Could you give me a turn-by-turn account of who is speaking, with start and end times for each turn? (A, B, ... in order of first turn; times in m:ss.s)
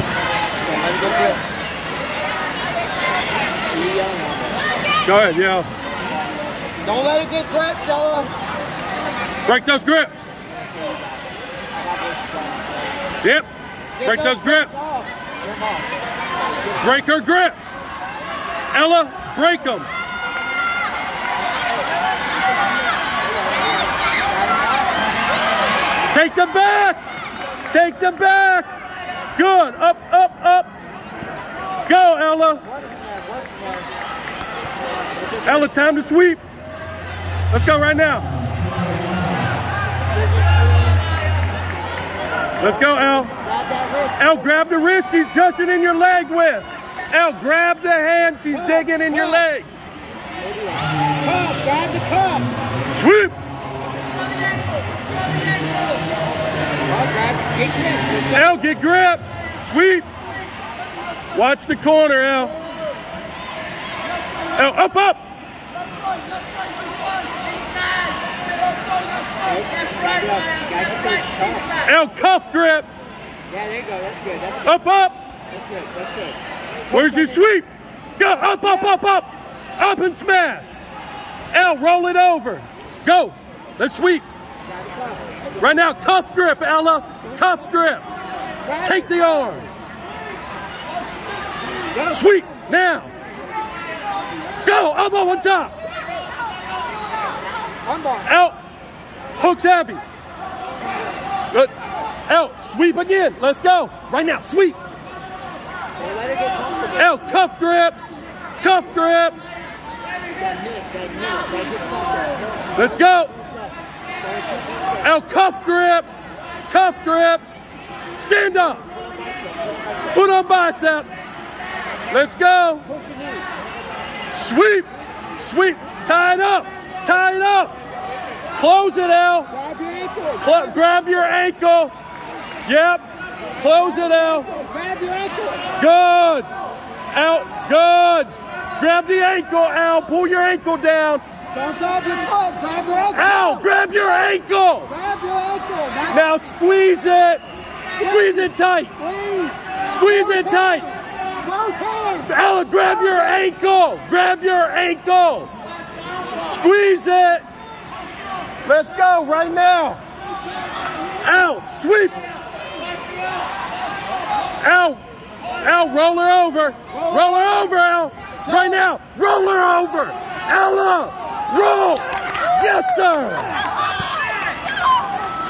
0:00.6-0:01.5 A
0:03.7-0:04.6 A
0:05.0-0:05.7 B
0:06.8-0:08.3 A
0:09.4-0:10.2 B
0:11.7-0:13.0 A
0:14.0-0:16.9 A
0:14.0-0:14.8 B
0:16.8-0:17.8 B
0:18.7-0:19.9 B
0:23.4-0:24.9 A
0:26.1-0:27.0 B
0:27.7-0:28.7 B
0:29.4-0:30.7 B
0:31.8-0:32.6 B
0:32.6-0:33.9 A
0:35.1-0:35.7 A
0:35.4-0:36.4 B
0:37.5-0:38.3 B
0:40.0-0:41.1 A
0:42.6-0:43.3 B
0:42.6-0:44.5 A
0:44.2-0:49.7 B
0:48.5-0:49.4 A
0:50.4-0:52.5 A
0:52.9-0:53.4 B
0:56.6-0:58.5 A
0:58.3-1:00.0 B
1:01.3-1:02.6 B
1:04.5-1:05.2 B
1:09.4-1:11.8 A
1:11.8-1:13.1 B
1:13.5-1:14.8 A
1:14.6-1:15.2 B
1:15.5-1:16.4 A
1:16.9-1:17.4 A
1:16.9-1:20.8 B
1:21.5-1:24.2 B
1:24.7-1:25.4 A
1:25.6-1:28.0 B
1:28.6-1:29.4 A
1:28.8-1:29.7 B
1:31.9-1:32.2 A
1:32.0-1:33.1 B
1:34.6-1:35.7 B
1:37.8-1:38.3 A
1:38.2-1:38.6 B
1:39.4-1:40.0 B
1:42.3-1:44.8 B
1:46.0-1:47.2 A
1:47.0-1:49.6 B
1:50.4-1:53.7 A
1:52.8-1:53.3 B
1:54.2-1:55.1 A
1:55.0-1:57.6 B
1:58.1-1:58.8 B
1:59.2-2:00.2 A
2:00.1-2:01.1 B
2:02.1-2:02.8 B
2:02.9-2:03.5 A
2:04.3-2:07.7 B
2:08.6-2:09.5 B
2:09.5-2:10.6 A
2:10.4-2:11.9 B
2:12.6-2:13.0 B
2:13.6-2:14.5 B
2:13.6-2:15.7 A
2:15.8-2:16.5 B
2:17.1-2:21.2 B
2:21.5-2:23.7 A
2:23.1-2:24.9 B
2:24.9-2:26.3 A
2:26.1-2:27.4 B
2:28.0-2:28.9 B
2:28.0-2:32.3 A
2:29.8-2:30.9 B
2:32.3-2:35.5 B
2:36.4-2:37.4 B
2:38.6-2:40.0 B
2:41.2-2:42.2 B
2:44.6-2:53.5 B